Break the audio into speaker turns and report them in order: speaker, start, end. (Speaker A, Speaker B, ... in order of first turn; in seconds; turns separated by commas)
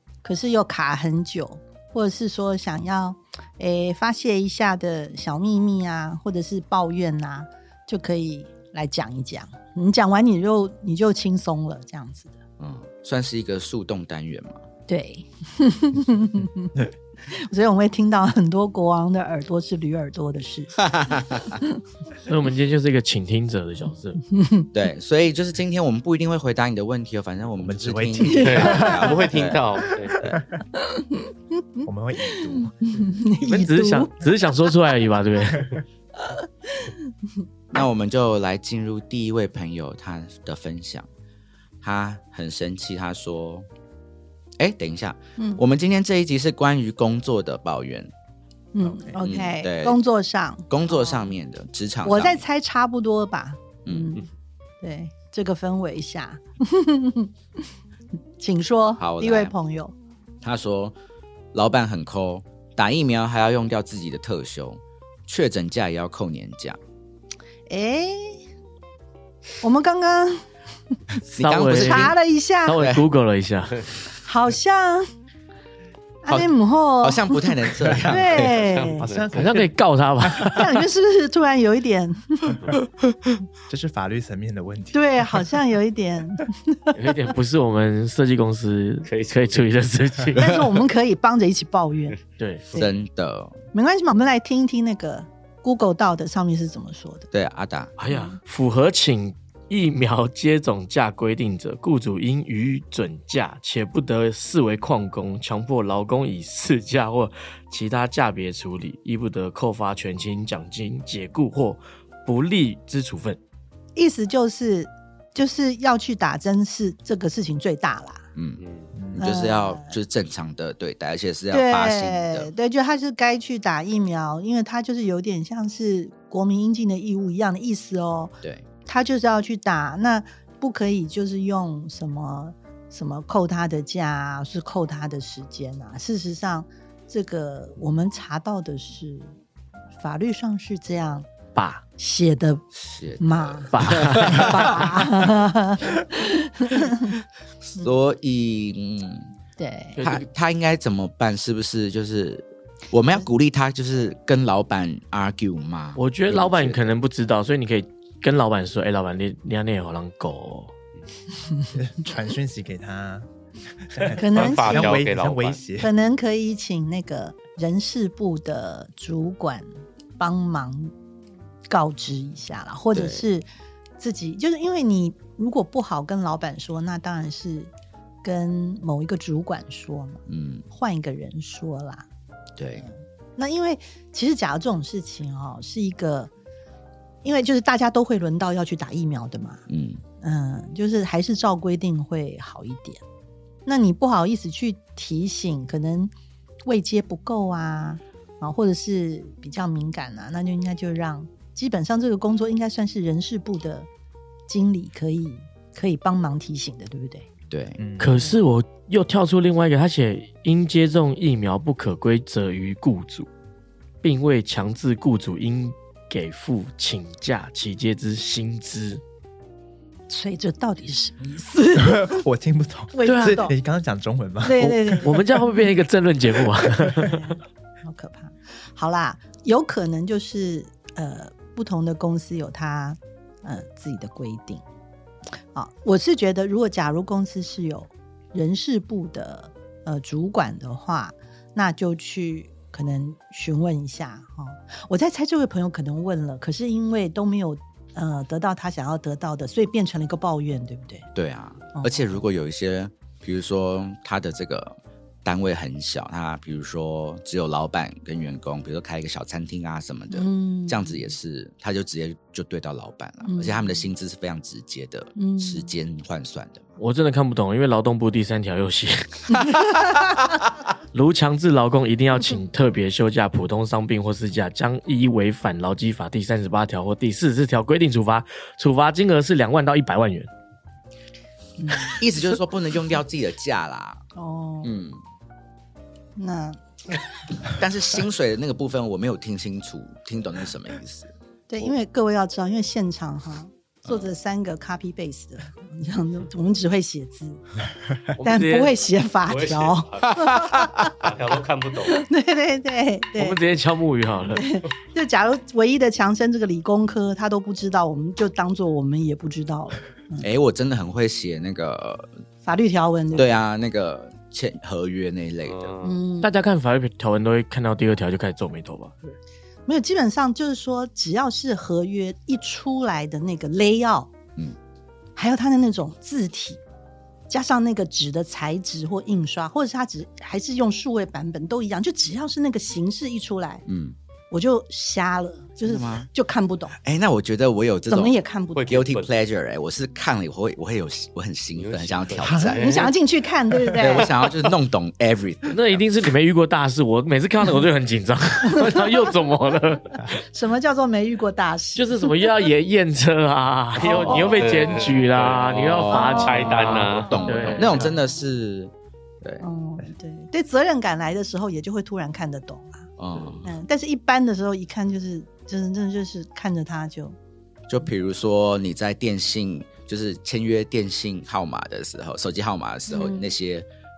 Speaker A: 0.2-12.3, Speaker B: 12.6-14.6, Speaker A: 14.9-16.7, Speaker A: 17.3-20.9, Speaker B: 20.8-21.6, Speaker C: 22.3-24.2, Speaker A: 24.3-24.7, Speaker B: 24.7-29.6, Speaker D: 27.6-29.2, Speaker A: 28.2-29.1, Speaker E: 28.4-30.3, Speaker A: 30.7-34.8, Speaker D: 31.9-32.7, Speaker C: 33.4-35.8, Speaker A: 36.2-37.1, Speaker B: 37.7-41.1, Speaker B: 41.8-43.7, Speaker B: 44.6-48.1, Speaker A: 48.7-51.3, Speaker D: 48.8-49.2, Speaker B: 49.2-50.0, Speaker B: 50.7-52.4, Speaker A: 52.0-54.2, Speaker B: 53.9-54.2, Speaker A: 54.8-57.3, Speaker A: 58.4-59.9, Speaker B: 59.0-59.5, Speaker B: 60.4-61.0, Speaker B: 61.5-66.8, Speaker A: 67.7-68.4, Speaker A: 69.6-70.5, Speaker B: 71.3-72.2, Speaker C: 71.4-72.2, Speaker A: 71.7-72.8, Speaker C: 72.7-73.9, Speaker B: 72.7-73.0, Speaker A: 74.2-75.1, Speaker A: 76.2-79.1, Speaker B: 77.0-78.7, Speaker E: 78.6-79.6, Speaker D: 79.0-80.6, Speaker C: 79.3-80.7, Speaker A: 80.4-82.6, Speaker D: 83.7-85.6, Speaker A: 84.9-87.0, Speaker C: 87.0-90.6, Speaker E: 89.1-89.7, Speaker A: 90.3-92.2, Speaker C: 92.4-92.7, Speaker B: 92.8-93.6, Speaker A: 93.7-97.3, Speaker B: 97.3-97.9, Speaker C: 98.0-113.4, Speaker A: 98.1-98.4, Speaker A: 114.0-118.3, Speaker B: 118.4-122.5, Speaker E: 118.6-119.0, Speaker D: 119.0-119.3, Speaker A: 119.2-120.0, Speaker A: 121.5-139.3, Speaker A: 140.0-141.3, Speaker C: 141.6-141.8, Speaker A: 142.0-142.7, Speaker B: 142.7-145.1, Speaker A: 143.2-147.1, Speaker C: 143.7-144.5, Speaker B: 147.7-149.3, Speaker A: 149.6-150.0, Speaker C: 150.0-150.2, Speaker B: 150.0-156.9, Speaker C: 156.0-160.7, Speaker D: 161.8-163.3, Speaker D: 163.9-165.9, Speaker A: 164.2-165.1, Speaker E: 164.3-165.6, Speaker A: 165.8-169.7, Speaker A: 170.2-170.9, Speaker A: 171.7-173.5, Speaker B: 172.9-173.2, Speaker A: 174.0-177.7, Speaker A: 178.2-182.1, Speaker B: 180.3-180.7, Speaker B: 182.6-182.9, Speaker A: 182.8-186.3, Speaker A: 187.2-189.7, Speaker B: 189.7-190.0, Speaker A: 190.2-193.0, Speaker A: 193.7-196.1, Speaker A: 196.7-203.9, Speaker A: 204.5-207.3, Speaker B: 207.5-207.8, Speaker D: 207.8-208.3, Speaker C: 208.0-213.3, Speaker C: 214.0-219.0, Speaker A: 220.1-222.2, Speaker D: 221.8-224.6, Speaker A: 222.9-223.6, Speaker C: 223.1-223.4, Speaker A: 224.4-225.3, Speaker C: 224.6-227.3, Speaker A: 227.2-234.6, Speaker A: 235.5-251.1, Speaker B: 251.2-266.8, Speaker A: 251.8-252.1, Speaker A: 260.1-260.9, Speaker A: 263.3-263.7, Speaker A: 265.2-265.7, Speaker C: 266.8-269.6, Speaker C: 270.9-280.3, Speaker A: 281.6-282.0, Speaker B: 282.0-284.0, Speaker A: 284.1-284.7, Speaker B: 284.6-285.0, Speaker A: 286.2-286.6, Speaker B: 287.5-291.1, Speaker A: 291.5-297.4, Speaker A: 298.1-301.1, Speaker C: 298.2-298.8, Speaker E: 299.3-300.3, Speaker B: 300.2-300.9, Speaker E: 300.9-302.1, Speaker A: 301.9-303.4, Speaker C: 303.2-304.5, Speaker A: 304.3-310.3, Speaker B: 310.2-312.1, Speaker A: 312.4-313.4, Speaker B: 313.1-315.7, Speaker E: 315.5-316.0, Speaker A: 315.8-316.3, Speaker C: 316.2-319.0, Speaker A: 319.7-324.1, Speaker A: 325.2-326.6, Speaker A: 327.3-333.6, Speaker B: 333.7-334.0, Speaker A: 334.3-336.8, Speaker B: 335.6-336.1, Speaker B: 336.8-338.2, Speaker A: 337.9-338.8, Speaker E: 338.6-339.1, Speaker B: 338.7-342.6, Speaker E: 341.5-342.9, Speaker D: 342.2-342.7, Speaker A: 342.5-344.1, Speaker B: 343.8-345.8, Speaker C: 345.5-350.0, Speaker A: 350.3-352.2, Speaker C: 351.8-357.8, Speaker A: 353.8-354.9, Speaker E: 354.0-357.7, Speaker B: 355.6-359.4, Speaker A: 355.9-356.7, Speaker A: 359.4-362.9, Speaker B: 363.0-363.5, Speaker E: 363.1-363.5, Speaker A: 363.4-367.2, Speaker B: 367.7-373.7, Speaker A: 372.9-373.3